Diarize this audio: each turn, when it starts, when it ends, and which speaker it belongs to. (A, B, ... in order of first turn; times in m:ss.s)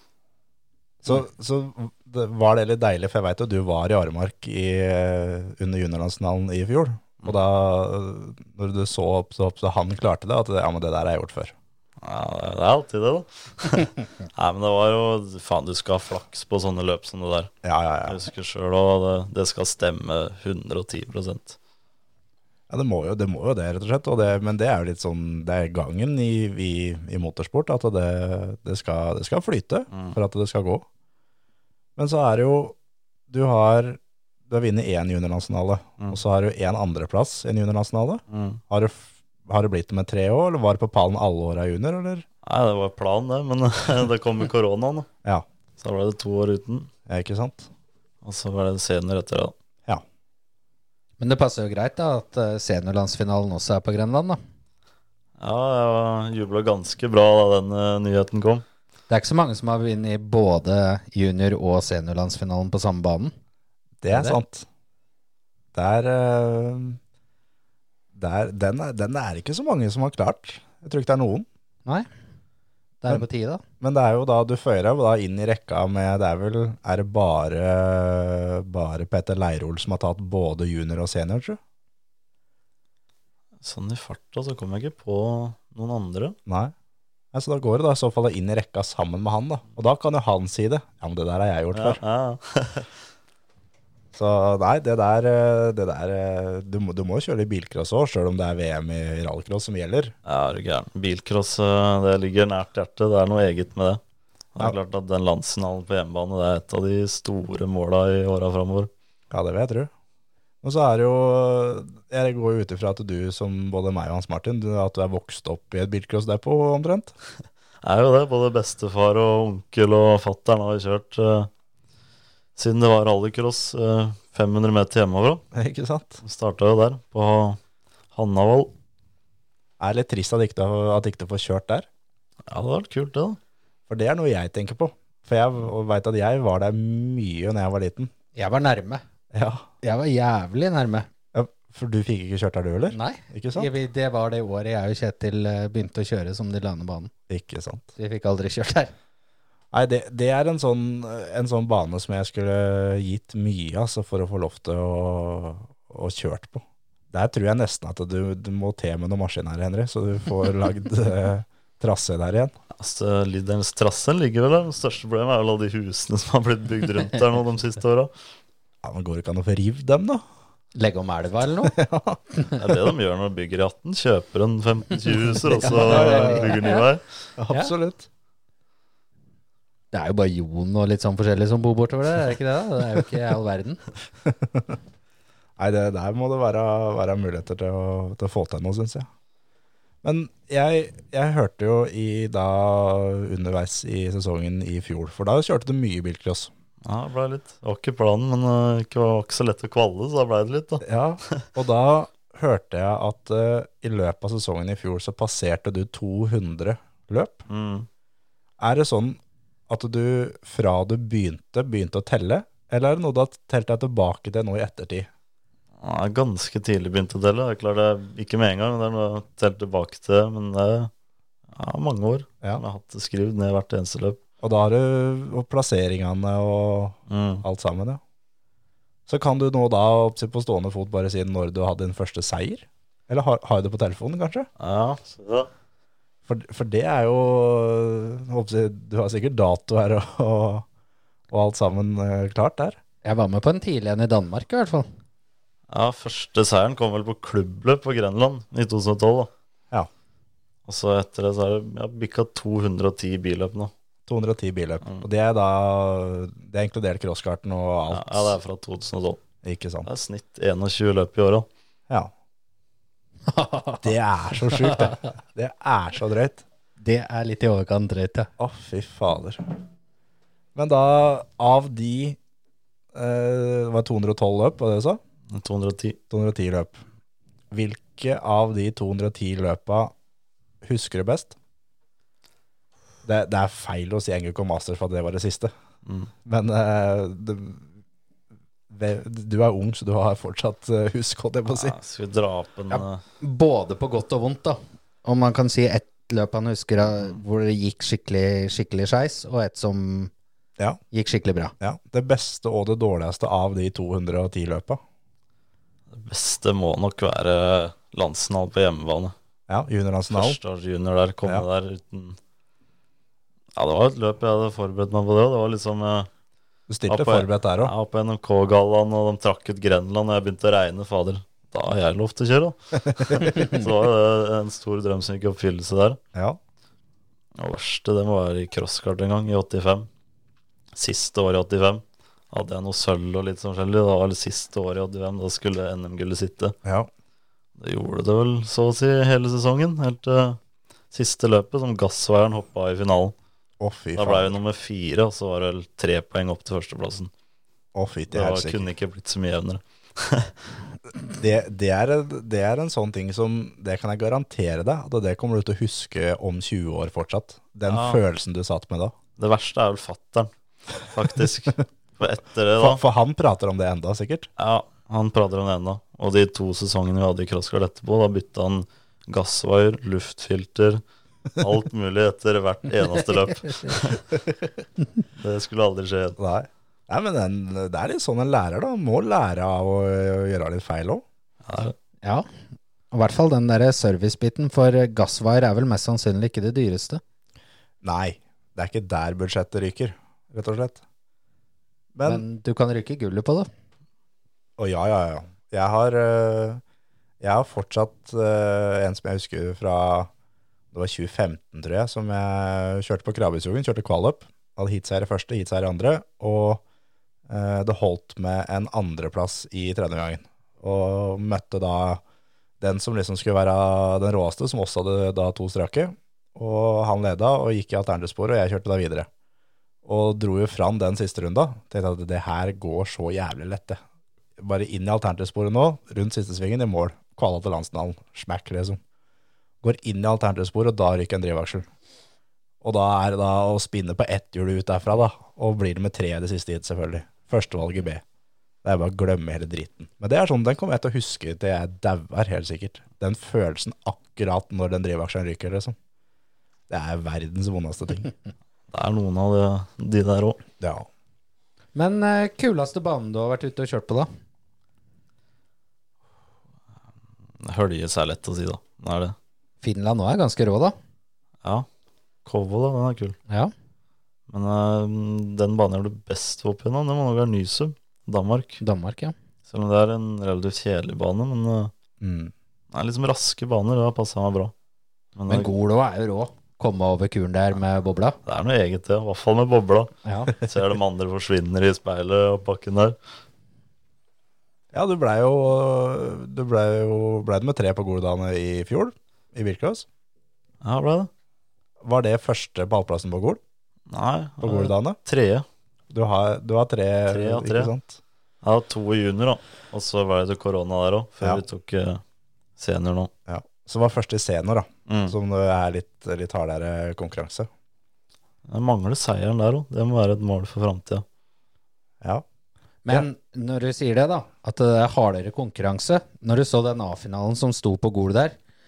0:01.0-0:11.5 A
0:12.0-0:17.5 B
0:17.6-0:18.2 A
0:18.0-0:21.6 B
0:22.7-0:30.8 A
0:29.9-0:30.2 B
0:32.0-0:32.7 A
0:33.3-0:42.2 A
0:38.3-0:38.6 B
0:42.4-0:45.1 B
0:45.8-0:46.9 B
0:47.1-0:47.7 A
0:48.2-0:49.5 B
0:51.2-0:54.4 C
0:55.4-0:58.6 B
0:59.1-1:03.3 C
1:04.0-1:04.7 A
1:05.7-1:07.0 A
1:08.1-1:11.5 A
1:13.0-1:13.6 C
1:13.8-1:21.6 A
1:23.6-1:26.4 B
1:26.5-1:26.7 A
1:27.3-1:32.0 A
1:31.7-1:32.9 B
1:34.1-1:40.1 A
1:40.2-1:44.0 B
1:44.5-1:48.9 B
1:49.3-1:49.9 A
1:50.6-1:57.1 A
1:57.8-2:01.5 B
2:02.6-2:05.4 B
2:05.5-2:06.2 A
2:06.2-2:07.6 B
2:08.1-2:08.7 B
2:09.8-2:11.9 A
2:12.5-2:13.4 B
2:13.9-2:18.1 A
2:18.4-2:19.0 C
2:19.3-2:19.6 A
2:19.8-2:21.1 C
2:21.3-2:23.7 A
2:22.9-2:27.1 C
2:27.3-2:27.9 A
2:28.0-2:28.9 C
2:29.7-2:42.5 A
2:42.8-2:48.1 B
2:48.8-2:50.2 A
2:50.8-2:51.8 C
2:51.6-2:52.2 A
2:52.6-2:57.0 B
2:55.5-2:56.8 C
2:55.6-2:56.6 A
2:57.4-2:58.1 A
2:59.9-3:03.8 C
3:04.2-3:04.8 A
3:05.6-3:09.1 A
3:10.0-3:16.5 A
3:16.8-3:21.4 B
3:20.8-3:27.4 A
3:27.5-3:27.9 B
3:28.6-3:35.1 A
3:35.8-3:40.9 B
3:41.5-3:44.2 B
3:44.4-3:48.0 A
3:47.1-3:47.4 B
3:49.1-3:54.5 A
3:54.6-3:55.5 B
3:56.2-4:00.6 A
4:01.3-4:02.8 A
4:03.0-4:04.9 C
4:05.7-4:09.3 B
4:10.6-4:13.7 B
4:14.1-4:18.4 A
4:17.9-4:19.2 B
4:19.4-4:19.9 A
4:19.8-4:21.5 B
4:23.3-4:23.9 C
4:23.8-4:26.4 A
4:24.5-4:25.0 C
4:26.8-4:28.3 C
4:28.4-4:29.4 A
4:30.5-4:32.2 A
4:32.9-4:35.0 A
4:35.3-4:36.0 B
4:36.1-4:36.8 A
4:37.5-4:39.9 A
4:40.6-4:41.3 A
4:43.0-4:45.5 A
4:46.2-4:47.6 A
4:48.7-4:51.7 A
4:51.5-4:53.0 B
4:52.7-5:00.1 C
5:00.9-5:01.5 C
5:01.6-5:04.8 A
5:05.9-5:09.1 B
5:09.5-5:10.4 A
5:10.1-5:12.2 B
5:13.6-5:16.1 B
5:16.7-5:17.7 A
5:16.9-5:26.0 B
5:22.9-5:23.4 A
5:27.4-5:29.9 B
5:30.7-5:36.5 B
5:37.6-5:40.4 B
5:40.9-5:43.1 B
5:43.6-5:44.4 A
5:43.9-5:47.1 B
5:47.7-5:48.7 A
5:48.1-5:50.4 B
5:51.1-5:58.9 A
5:57.7-5:58.0 B
5:59.2-6:02.8 B
6:02.6-6:04.3 A
6:04.4-6:10.8 B
6:11.4-6:14.1 B
6:15.1-6:16.2 B
6:16.2-6:21.0 A
6:21.4-6:21.7 B
6:22.9-6:27.0 C
6:27.8-6:30.8 A
6:31.9-6:32.2 A
6:32.0-6:33.5 C
6:34.6-6:36.6 A
6:37.2-6:40.1 A
6:40.7-6:46.6 A
6:47.3-6:52.0 A
6:52.6-6:59.1 A
6:59.8-7:03.8 A
7:04.4-7:08.8 A
7:09.6-7:11.7 A
7:12.6-7:18.0 A
7:18.6-7:25.8 A
7:26.7-7:28.1 A
7:28.7-7:30.4 B
7:30.6-7:30.9 A
7:31.7-7:34.1 C
7:37.4-7:39.2 B
7:39.6-7:40.8 C
7:42.2-7:43.2 B
7:44.3-7:48.6 B
7:48.6-7:49.1 C
7:49.5-7:51.7 B
7:52.0-7:52.3 A
7:52.7-7:54.5 B
7:55.1-7:55.5 B
7:55.3-7:58.2 C
7:58.2-8:03.0 B
8:00.0-8:00.3 C
8:04.7-8:09.8 A
8:10.6-8:11.1 B
8:11.8-8:13.4 A
8:13.9-8:15.4 B
8:14.4-8:15.0 A
8:15.9-8:18.0 A
8:17.1-8:17.7 B
8:18.4-8:22.0 B
8:22.6-8:23.1 B
8:23.3-8:27.5 A
8:24.9-8:25.2 B
8:28.5-8:31.0 B
8:32.8-8:38.4 C